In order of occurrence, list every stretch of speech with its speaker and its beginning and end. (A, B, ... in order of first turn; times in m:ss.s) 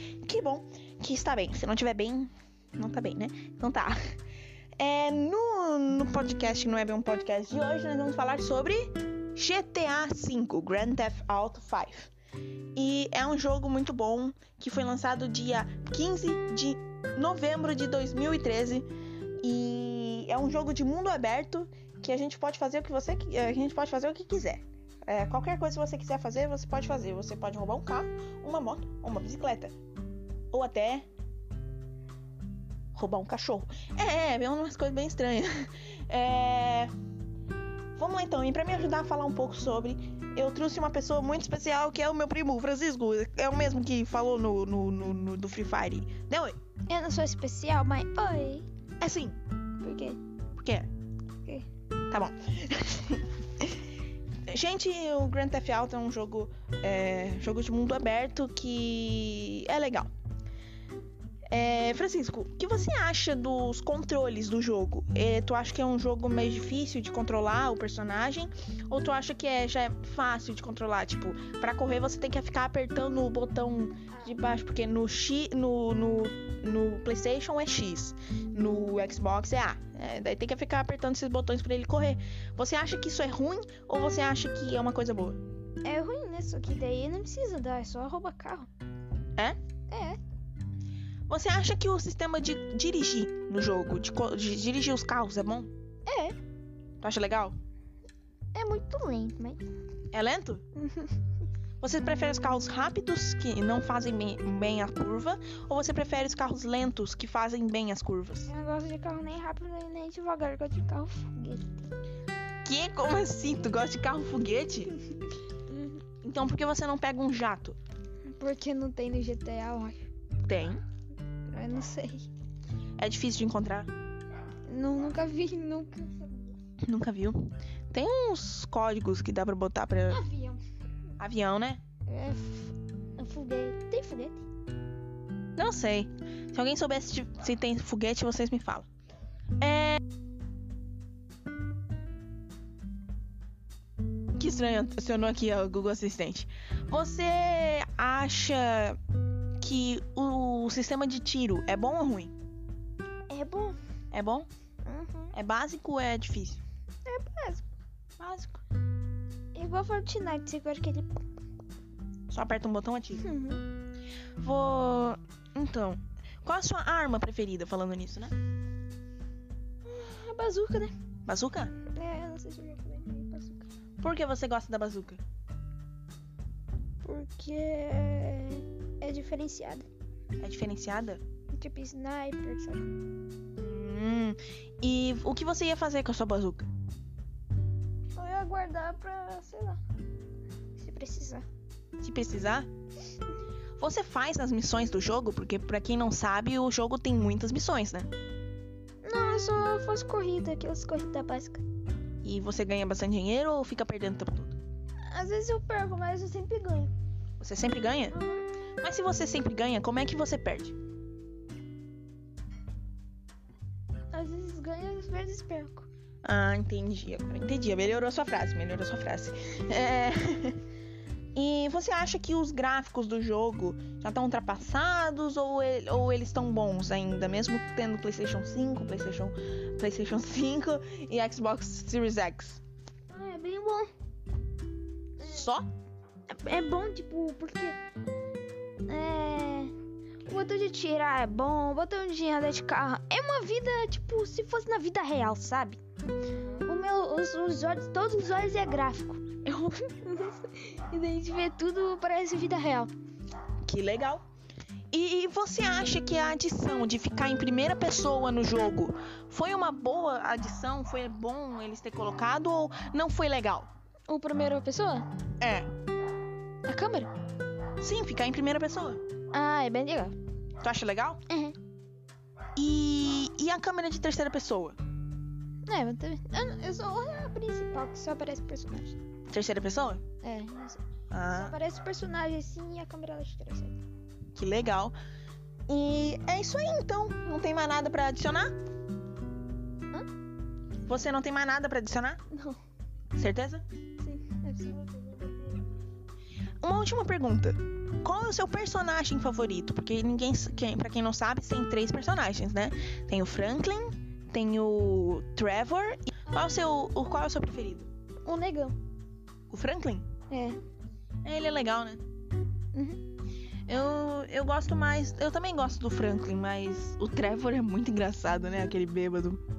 0:00.2-0:04.0 A
0:04.8-0:12.1 A
0:12.7-0:18.9 A
0:19.4-0:29.7 A
0:30.5-0:31.0 A
0:32.9-0:36.9 A
0:38.0-0:46.6 A
0:46.9-0:48.7 B
0:49.0-0:49.4 A
0:49.8-0:50.2 B
0:50.6-0:50.9 A
0:52.1-0:53.8 A
0:54.5-1:00.1 A
1:01.5-1:25.4 A
1:25.8-1:28.7 B
1:29.9-1:30.2 B
1:31.3-1:35.7 A
1:36.1-1:36.4 B
1:37.0-1:37.6 A
1:38.5-1:39.6 B
1:40.1-1:40.6 A
1:40.8-1:41.2 B
1:41.8-1:48.5 A
1:48.5-1:51.7 B
1:52.6-1:55.0 A
1:56.2-1:57.8 A
1:58.3-2:00.1 B
2:00.4-2:00.8 A
2:01.5-2:02.3 B
2:03.0-2:03.9 A
2:04.7-2:06.6 B
2:06.8-2:10.2 A
2:10.1-2:10.6 B
2:11.2-2:11.8 A
2:12.0-2:14.4 B
2:15.6-2:18.8 A
2:19.6-2:20.0 A
2:24.4-2:29.0 A
2:29.6-2:32.3 A
2:33.3-2:33.8 B
2:34.1-2:34.5 A
2:34.8-2:35.3 B
2:35.3-2:36.6 A
2:37.0-2:37.7 B
2:38.2-2:38.6 A
2:39.5-2:41.1 B
2:42.3-2:43.3 A
2:43.2-2:43.6 B
2:44.4-2:48.3 A
2:49.8-2:50.9 B
2:51.2-2:51.7 A
2:51.9-2:53.7 B
2:54.0-2:55.2 A
2:57.0-2:59.9 B
3:00.4-3:01.2 A
3:01.5-3:02.8 B
3:03.6-3:06.7 A
3:08.1-3:09.8 B
3:10.8-3:11.4 B
3:12.0-3:12.7 A
3:13.8-3:18.1 A
3:19.0-3:21.6 B
3:22.2-3:24.6 A
3:25.1-3:26.9 B
3:27.4-3:28.2 A
3:28.1-3:28.4 B
3:28.8-3:30.8 A
3:34.1-3:35.9 B
3:36.2-3:40.6 A
3:41.3-3:52.6 A
3:53.1-3:53.9 B
3:55.2-3:55.7 A
3:56.3-3:57.8 B
3:58.8-3:59.7 B
4:00.3-4:05.8 B
4:06.6-4:12.9 B
4:13.6-4:14.2 A
4:14.9-4:23.7 A
4:24.1-4:25.1 B
4:25.4-4:25.7 A
4:26.6-4:27.1 B
4:27.8-4:29.0 A
4:29.3-4:30.2 B
4:30.6-4:31.2 A
4:31.3-4:31.6 B
4:32.6-4:34.8 A
4:35.7-4:39.0 B
4:39.3-4:40.0 A
4:40.2-4:43.8 B
4:41.1-4:41.6 A
4:44.3-4:45.0 A
4:45.7-4:48.5 A
4:50.8-4:52.2 A
4:52.3-4:52.6 B
4:53.1-4:53.6 A
4:54.0-4:55.6 B
4:56.6-5:07.9 A
5:08.2-5:08.8 B
5:09.5-5:10.1 A
5:10.3-5:10.6 B
5:11.2-5:12.0 A
5:12.7-5:13.0 B
5:13.7-5:19.4 A